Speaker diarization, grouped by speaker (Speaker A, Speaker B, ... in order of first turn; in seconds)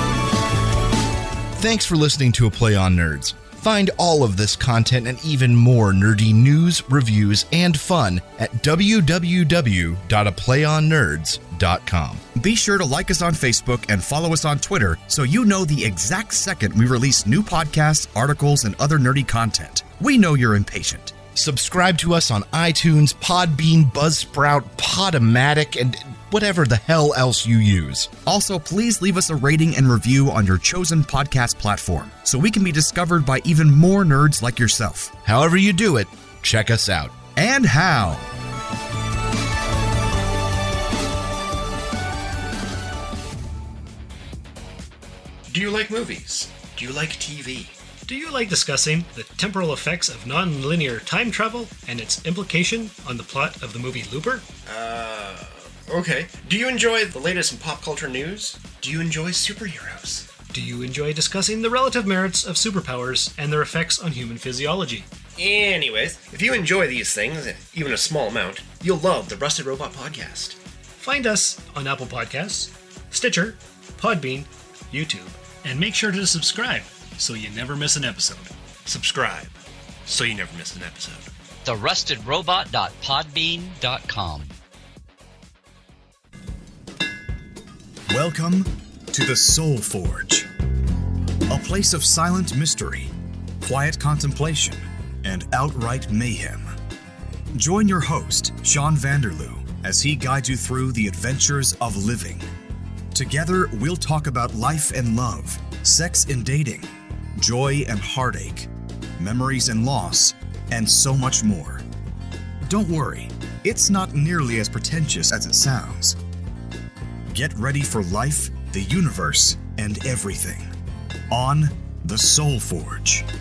Speaker A: 1.6-12.3, 21.4-28.2, 35.2-37.2
Speaker B: 12.3-21.1, 28.3-35.1, 37.4-38.3, 88.1-90.5, 91.5-96.7, 97.5-102.5, 103.1-111.8, 112.7-116.2, 117.3-120.7, 121.3-123.3
Speaker C: 45.5-47.8, 54.7-60.3, 65.4-70.6, 78.9-79.5, 80.1-81.3
Speaker D: 48.1-54.5, 60.5-65.1, 71.0-78.5
Speaker E: 81.7-84.5